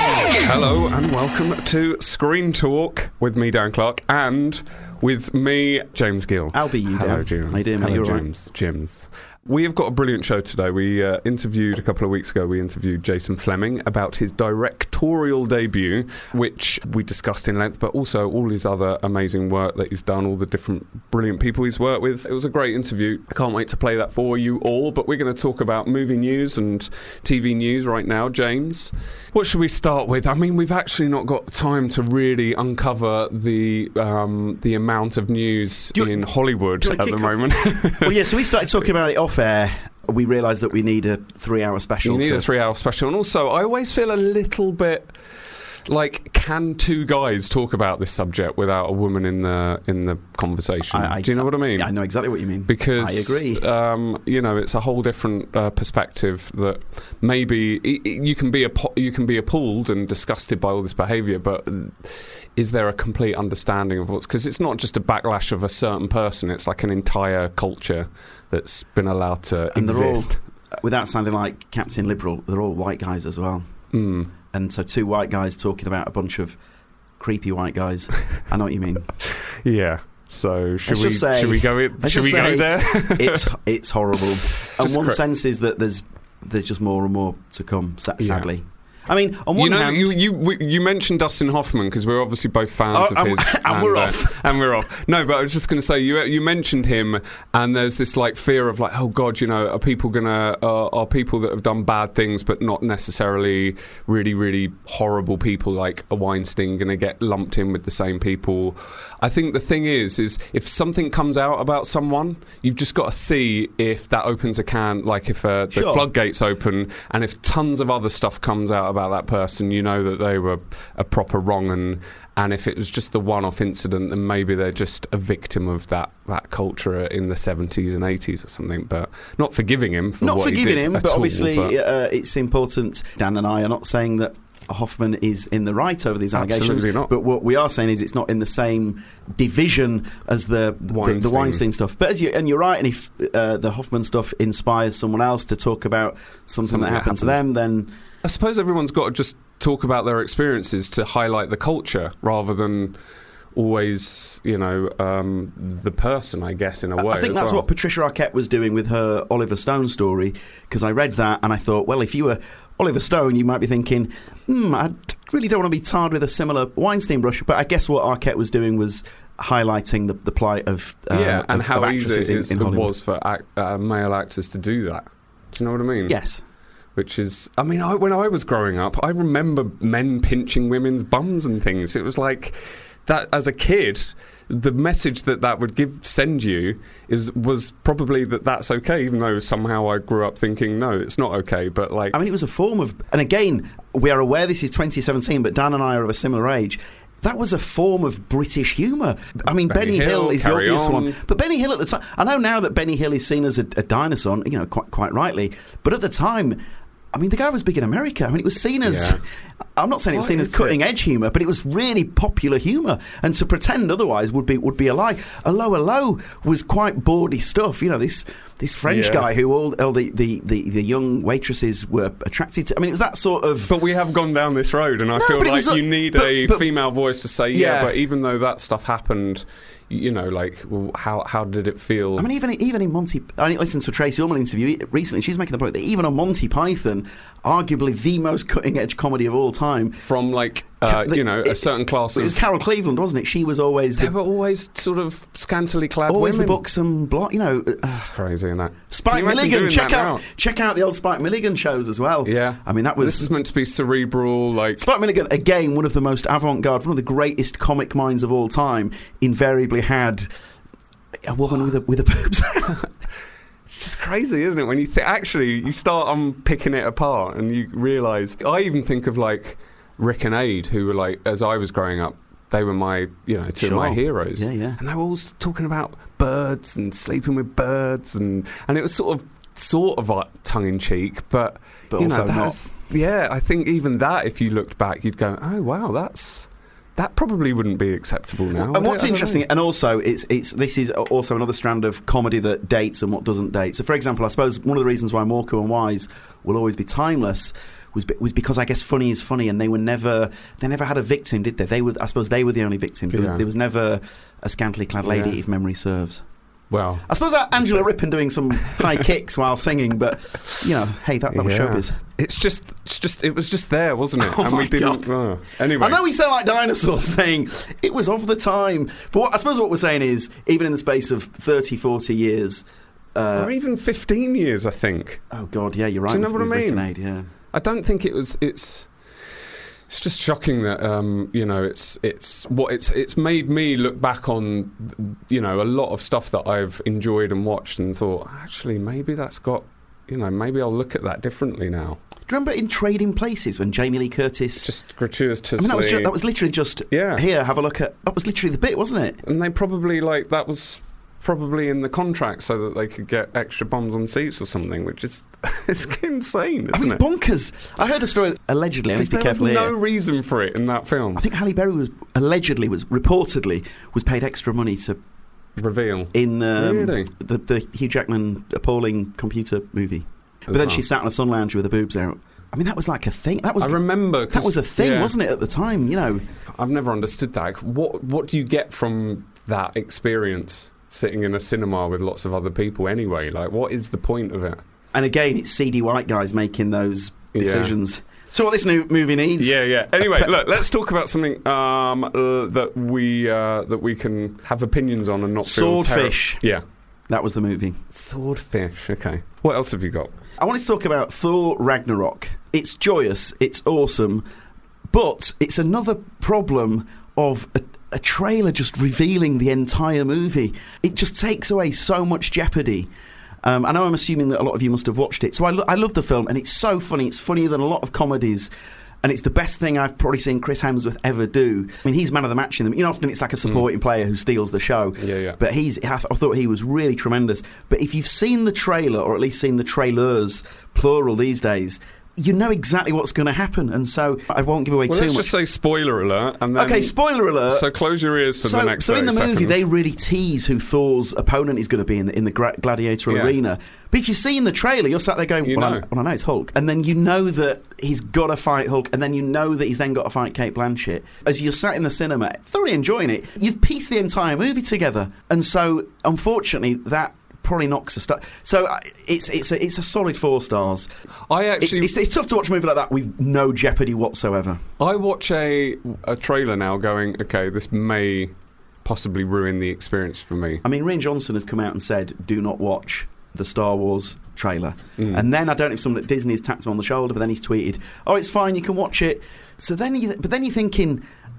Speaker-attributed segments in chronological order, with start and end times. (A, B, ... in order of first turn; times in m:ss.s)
0:00.3-0:38.6 A
0:06.5-0:08.2 B
0:36.0-0:36.2 B
0:36.8-0:42.5 B
0:42.0-0:45.1 A
0:45.9-0:51.9 A
0:50.9-0:53.6 B
0:52.7-1:10.4 A
1:09.7-1:13.7 B
1:13.9-1:14.3 A
1:14.5-1:16.6 B
1:17.2-1:19.1 B
1:19.6-1:23.5 A
1:20.9-1:30.1 B
1:24.8-1:25.2 A
1:28.2-1:28.5 A
1:29.6-2:11.8 A
1:32.9-1:34.3 B
1:55.7-1:56.1 B
2:10.2-2:27.9 B
2:16.3-2:17.1 A
2:20.9-2:21.6 A
2:26.6-2:27.4 A
2:28.2-2:32.9 A
2:33.5-2:37.6 A
2:37.0-2:52.9 B
2:51.1-2:56.2 A
2:56.1-2:56.4 B
2:57.0-3:02.5 A
3:03.1-3:12.2 A
3:12.1-3:26.6 B
3:19.7-3:21.2 A
3:27.1-3:29.2 B
3:28.8-3:29.2 A
3:29.8-3:43.7 B
3:30.1-3:30.8 A
3:38.8-3:39.3 A
3:43.7-3:52.3 A
3:45.2-3:46.7 B
3:47.5-3:48.0 B
3:52.2-4:00.0 B
4:00.0-4:02.4 A
4:00.8-4:04.1 B
4:04.0-4:06.6 A
4:06.1-4:08.0 B
4:07.9-4:10.2 A
4:08.9-4:13.3 B
4:12.2-4:14.8 A
4:14.8-4:20.3 B
4:21.3-4:22.8 B
4:23.7-4:49.4 A
4:33.6-4:34.8 B
4:41.9-4:42.6 B
4:48.6-5:06.2 B
5:03.1-5:03.4 A
5:05.0-5:05.4 A
5:06.7-5:07.1 A
5:07.1-5:12.0 B
5:07.6-5:07.9 A
5:11.3-5:16.0 A
5:14.2-5:15.1 B
5:15.8-5:22.6 B
5:23.1-5:23.5 B
5:23.3-5:25.2 A
5:25.3-5:27.3 B
5:26.1-5:26.9 A
5:27.5-5:28.9 A
5:29.9-5:42.0 A
5:42.3-5:44.7 B
5:44.6-5:46.1 A
5:45.6-5:49.2 B
5:46.9-5:47.2 A
5:49.2-5:57.0 A
5:56.7-5:59.7 B
5:58.9-6:01.2 A
6:01.2-6:05.0 B
6:05.6-6:07.1 A
6:06.1-6:16.2 B
6:10.5-6:10.8 A
6:13.6-6:15.1 A
6:16.5-6:24.6 A
6:24.9-6:30.3 B
6:27.4-6:27.8 A
6:29.4-6:36.6 A
6:35.4-6:36.4 B
6:37.1-6:37.8 B
6:37.9-6:40.1 A
6:40.4-6:44.2 B
6:44.9-6:52.9 B
6:53.4-6:58.5 B
6:59.0-7:15.3 B
7:05.0-7:05.4 A
7:14.9-7:16.9 A
7:16.6-7:17.7 B
7:17.5-7:19.6 A
7:18.4-7:40.9 B
7:23.1-7:23.3 A
7:25.4-7:25.8 A
7:41.3-7:42.0 A
7:41.6-7:44.6 B
7:44.8-7:48.3 A
7:48.8-7:50.6 A
7:50.6-8:01.0 B
7:55.0-7:55.2 A